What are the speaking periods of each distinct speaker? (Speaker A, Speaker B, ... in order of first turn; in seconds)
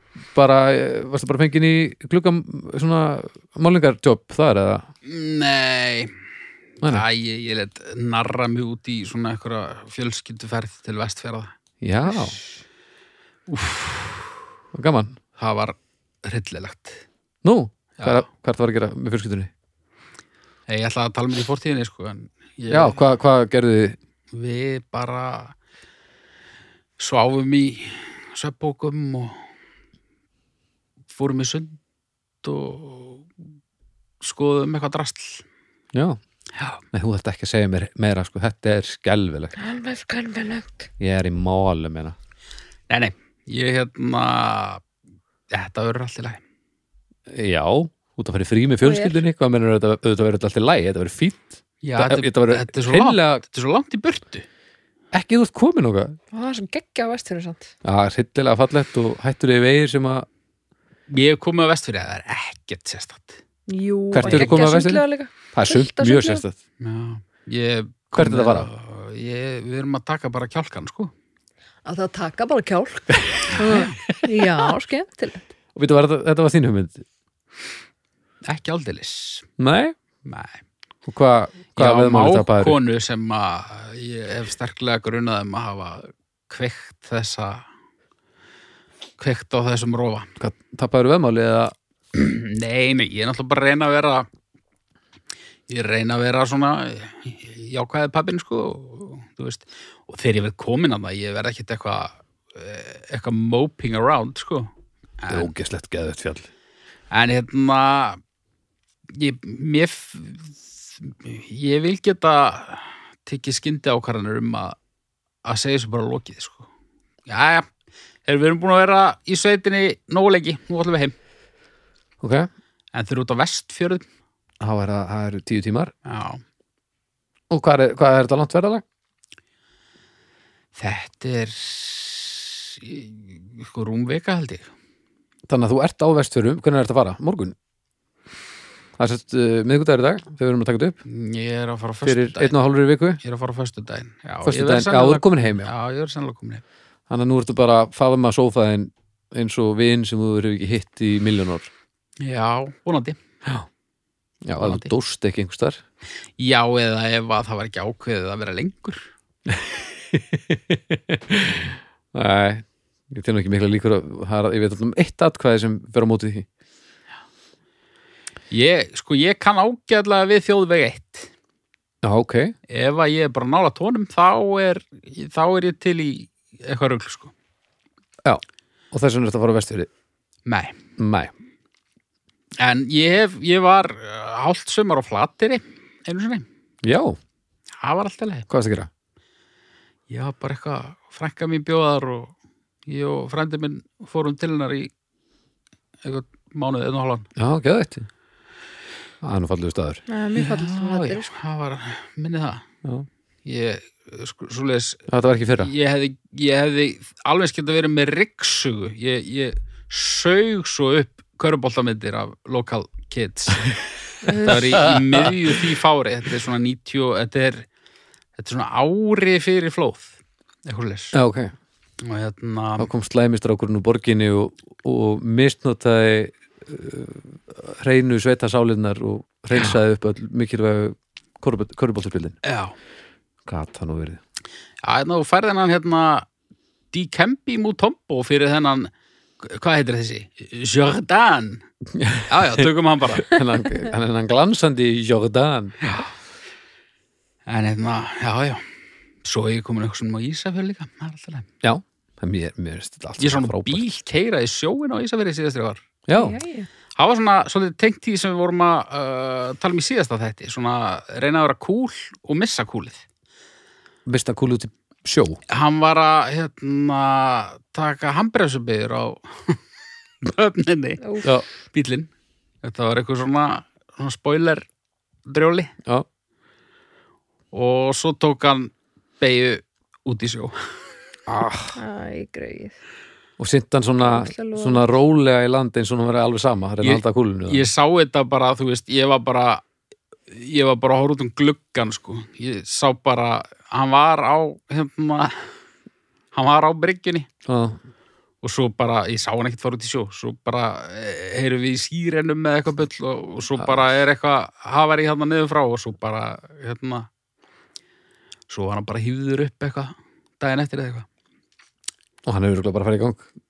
Speaker A: 0.3-4.9, 11.8-12.4, 14.7-15.2, 17.4-19.5, 22.7-24.0, 35.9-36.2, 36.9-39.5, 41.0-42.1, 47.3-53.4, 55.1-56.1, 57.8-60.2, 64.1-66.6, 68.1-68.7, 73.3-74.5, 75.7-77.0, 79.6-79.9, 81.0-82.8, 90.4-91.7, 105.3-106.5, 122.2-122.5, 124.6-125.9, 127.5-128.8, 135.5-137.6, 139.0-141.0, 142.0-143.2, 144.4-145.7, 147.1-151.7, 154.4-155.8, 159.5-166.5, 172.0-172.5, 178.2-179.9, 181.0-181.3, 186.8-187.2, 188.5-188.9, 197.4-198.1, 199.2-200.0, 205.1-205.7, 214.4-215.6, 221.1-221.5, 222.8-232.3, 233.4-234.2, 241.9-245.8, 251.6-253.8, 256.1-256.4, 264.1-265.4, 281.3-281.8, 283.4-287.7, 297.4-297.8, 312.2-313.3
Speaker B: 5.0-6.1, 6.8-11.5, 12.1-12.4, 13.5-14.3, 15.4-17.0, 18.0-18.2, 20.7-23.0, 24.3-25.5, 27.0-29.4, 31.1-31.8, 32.4-33.3, 34.2-35.4, 36.5-36.8, 42.9-44.8, 45.5-46.4, 51.8-54.4, 61.1-63.4, 64.2-64.6, 66.8-71.1, 73.5-74.0, 78.4-79.5, 80.2-80.6, 81.8-87.6, 89.2-90.3, 92.1-94.3, 95.7-104.7, 105.2-105.5, 107.1-108.2, 109.1-114.8, 115.4-116.7, 117.3-117.7, 118.2-121.1, 122.9-124.0, 126.0-126.4, 130.8-134.7, 141.1-142.5, 143.2-146.6, 152.2-153.2, 154.6-154.9, 156.4-159.1, 168.5-171.3, 172.7-177.3, 180.4-180.8, 182.6-186.4, 187.8-188.5, 190.1-192.3, 192.9-194.9, 196.0-197.3, 200.3-202.6, 203.4-205.1, 205.6-217.7, 218.4-220.1, 220.6-221.2, 222.0-222.9, 232.4-232.7, 234.8-236.2, 236.9-241.6, 242.3-243.3, 245.8-246.1, 247.5-248.6, 249.2-251.5, 253.2-255.8, 256.9-263.0, 265.5-269.6, 270.2-271.0, 271.6-272.1, 272.6-274.6, 275.2-275.7, 277.5-280.7, 286.8-289.6, 290.3-295.5, 296.3-297.3, 298.4-307.1, 308.5-311.1
Speaker C: 39.6-40.9, 48.8-49.2, 56.3-57.7, 63.7-66.4, 71.8-75.5, 200.1-201.3, 214.2-214.6, 256.1-256.7, 271.0-271.3, 281.8-282.8, 284.0-284.8